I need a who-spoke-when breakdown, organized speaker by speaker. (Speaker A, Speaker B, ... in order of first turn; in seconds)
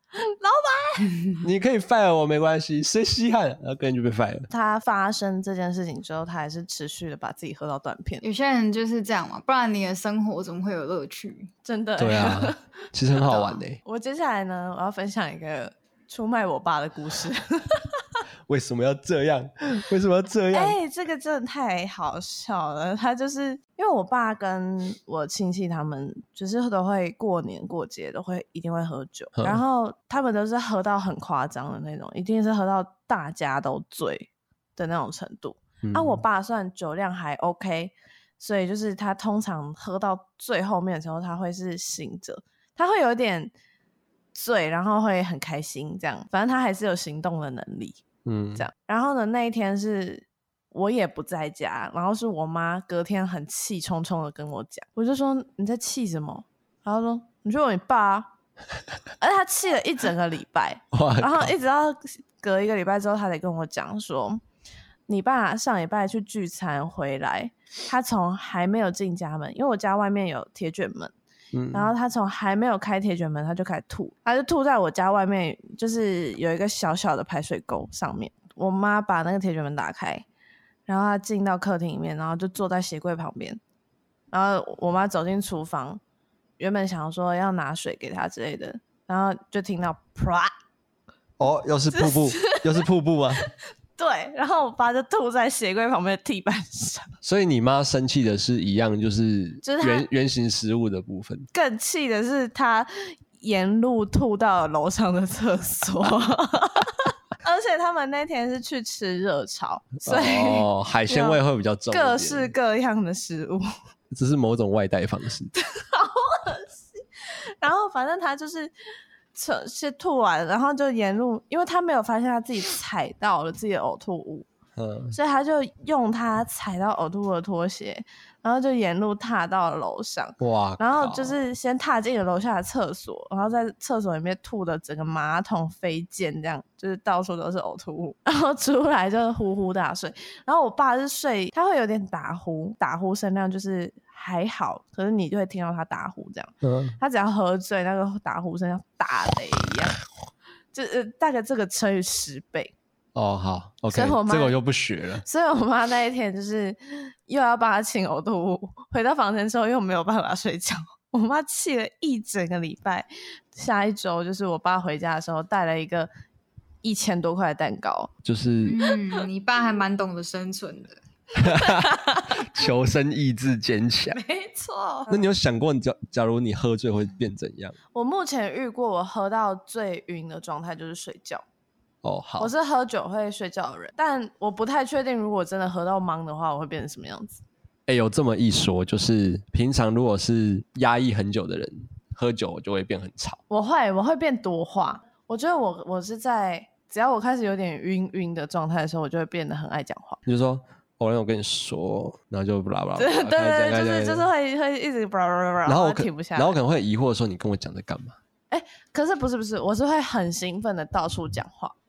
Speaker A: 0.2-1.2, 4.5-8.2, 11.6-18.2, 20.5-43.5, 44.3-48.0, 48.6-58.3, 59.2-64.4, 65.1-71.1, 71.7-80.2, 80.9-83.6, 84.3-86.0, 86.6-90.5, 91.9-92.9, 93.4-97.1, 99.6-100.1, 101.5-113.7, 115.6-118.7, 119.3-124.5, 125.1-150.0, 150.7-152.7, 153.9-154.6, 155.2-166.1, 166.8-168.1, 171.6-172.4, 174.1-175.2, 177.9-181.4, 182.4-187.4, 193.5-200.2, 203.0-206.6, 208.5-211.8
Speaker B: 1.4-4.5, 12.0-13.8, 18.5-20.8, 29.4-29.6, 35.8-36.2, 48.2-48.6, 60.9-61.5, 71.5-71.9, 91.4-93.4, 97.2-101.5, 110.0-112.5, 114.1-115.5, 124.8-125.2, 130.4-131.4, 146.6-147.0, 153.1-155.2, 168.2-168.9, 171.3-174.2, 175.1-177.8, 182.0-182.5, 187.9-193.4, 200.2-204.3, 205.7-208.2
Speaker C: 8.2-11.5, 168.6-171.0